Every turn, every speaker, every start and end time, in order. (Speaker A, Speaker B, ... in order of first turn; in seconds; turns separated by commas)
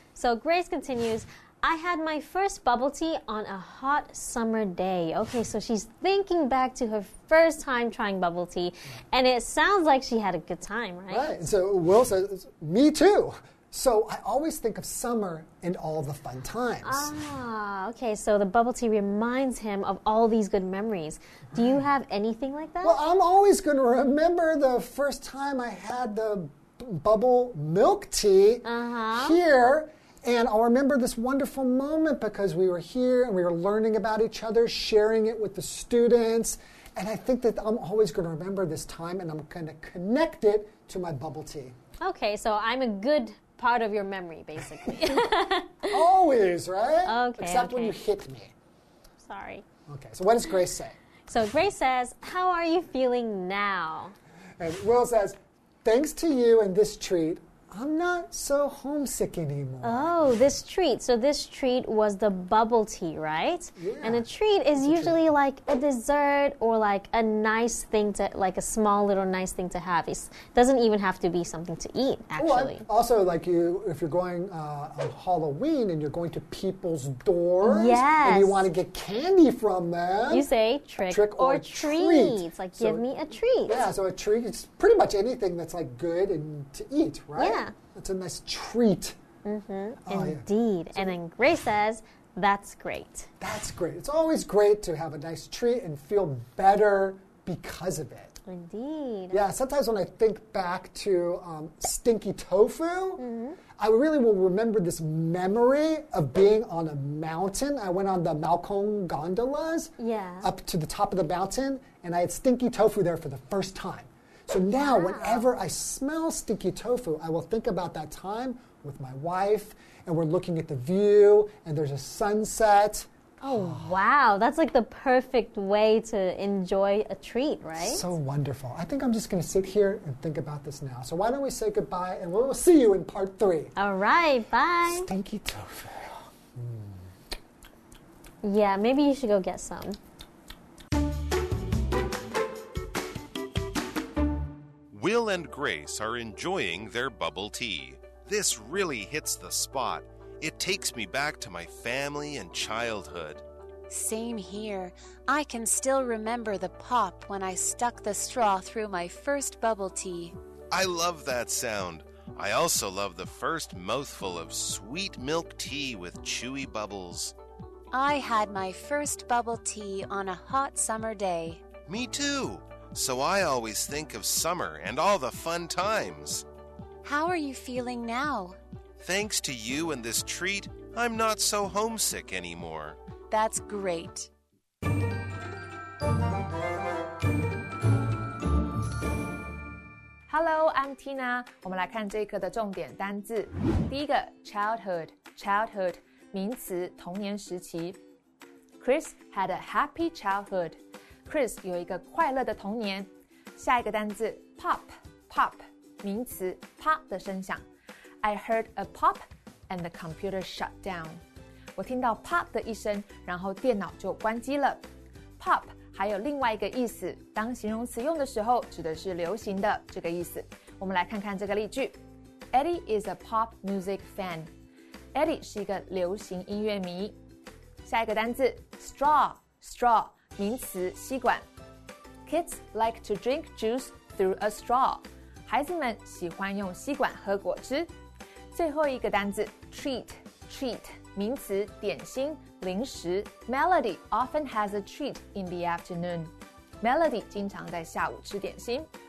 Speaker A: 0.1-11.3, Speaker B: 11.1-17.1, Speaker A: 16.8-23.0, Speaker B: 22.8-41.8, Speaker A: 28.6-29.4, Speaker A: 42.0-45.9, Speaker B: 44.9-45.2, Speaker B: 45.9-48.5, Speaker A: 47.0-48.0, Speaker A: 49.2-49.6, Speaker B: 49.9-50.9, Speaker A: 51.3-54.1, Speaker B: 54.6-60.1, Speaker A: 59.8-72.8, Speaker B: 63.8-65.2, Speaker B: 72.4-80.5, Speaker A: 77.6-78.7, Speaker A: 80.3-83.9, Speaker B: 81.0-83.1, Speaker B: 83.7-89.2, Speaker A: 87.3-87.7, Speaker A: 89.4-93.3, Speaker B: 90.0-91.2, Speaker B: 93.4-98.4, Speaker A: 98.5-99.4, Speaker B: 99.3-103.2, Speaker A: 103.2-103.6, Speaker B: 103.8-124.0, Speaker A: 110.0-110.5, Speaker A: 114.8-115.5, Speaker A: 123.4-128.1, Speaker B: 127.8-133.7, Speaker A: 133.8-135.1, Speaker B: 134.8-137.0, Speaker A: 138.4-140.0, Speaker C: 144.9-153.4, Speaker D: 153.9-160.3, Speaker C: 160.7-167.3, Speaker D: 167.9-171.6, Speaker C: 171.9-176.4, Speaker D: 177.0-178.6, Speaker C: 179.0-183.0, Speaker D: 183.3-184.3, Speaker E: 190.3-198.0, Speaker E: 198.8-207.6, Speaker E: 208.2-211.2, Speaker E: 211.8-214.8, Speaker E: 215.4-221.9, Speaker E: 222.5-224.5, Speaker E: 225.1-227.2, Speaker E: 227.8-231.4, Speaker E: 232.2-237.9, Speaker E: 238.5-248.9